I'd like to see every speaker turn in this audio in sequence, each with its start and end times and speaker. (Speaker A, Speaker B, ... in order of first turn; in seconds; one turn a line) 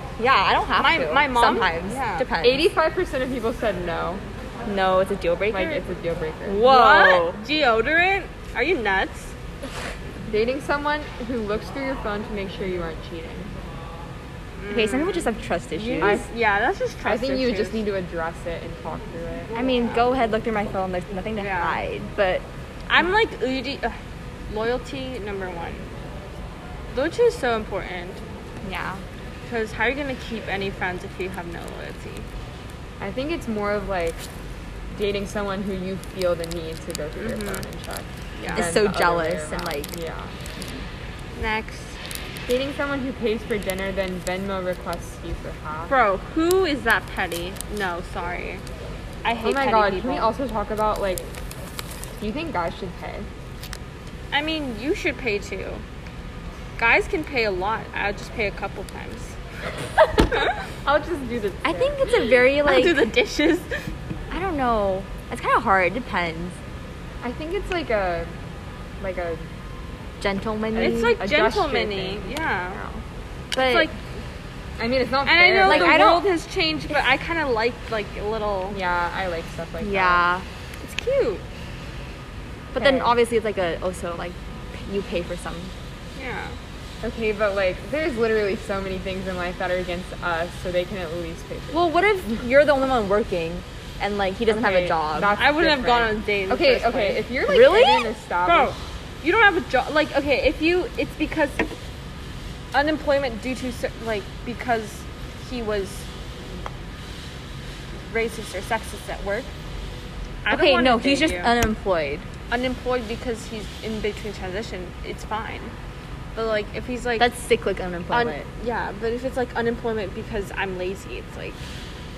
Speaker A: 0.2-2.6
Speaker B: 0.8-2.3
Speaker C: 2.4-4.2
Speaker A: 4.7-5.8
Speaker C: 5.5-6.6
Speaker A: 6.5-7.4
Speaker B: 6.6-9.3
Speaker C: 10.3-13.5
Speaker B: 14.6-17.9
Speaker A: 14.7-16.2
Speaker C: 16.0-16.3
Speaker C: 17.0-19.9
Speaker A: 19.6-22.5
Speaker B: 21.4-21.8
Speaker B: 22.9-24.0
Speaker B: 24.5-25.9
Speaker B: 26.9-28.2
Speaker A: 28.6-29.0
Speaker B: 29.5-32.3
Speaker C: 33.0-34.2
Speaker C: 34.9-40.4
Speaker B: 37.2-37.7
Speaker B: 38.4-38.7
Speaker A: 38.5-40.0
Speaker A: 40.6-40.9
Speaker B: 41.4-42.0
Speaker C: 42.5-46.0
Speaker B: 45.9-48.6
Speaker B: 49.2-50.3
Speaker C: 49.4-51.3
Speaker C: 52.2-53.3
Speaker B: 54.3-55.8
Speaker B: 56.8-59.4
Speaker C: 60.3-62.0
Speaker A: 61.6-63.1
Speaker B: 62.5-63.8
Speaker A: 64.3-66.6
Speaker C: 67.2-68.3
Speaker C: 69.0-69.5
Speaker A: 70.2-71.2
Speaker C: 70.7-73.0
Speaker B: 70.8-72.8
Speaker A: 73.5-73.9
Speaker B: 73.5-74.0
Speaker C: 74.8-76.2
Speaker B: 75.2-78.8
Speaker A: 75.7-76.2
Speaker C: 78.7-80.3
Speaker A: 79.8-80.5
Speaker B: 80.8-81.4
Speaker A: 82.7-85.7
Speaker C: 82.8-83.1
Speaker B: 86.2-86.6
Speaker C: 87.0-92.4
Speaker A: 91.7-95.4
Speaker C: 94.5-98.8
Speaker B: 95.3-101.7
Speaker A: 97.5-98.1
Speaker B: 102.7-106.1
Speaker B: 108.0-109.5
Speaker B: 110.4-111.5
Speaker A: 110.5-112.3
Speaker B: 112.5-115.7
Speaker B: 116.3-117.3
Speaker A: 117.2-118.5
Speaker B: 118.1-121.6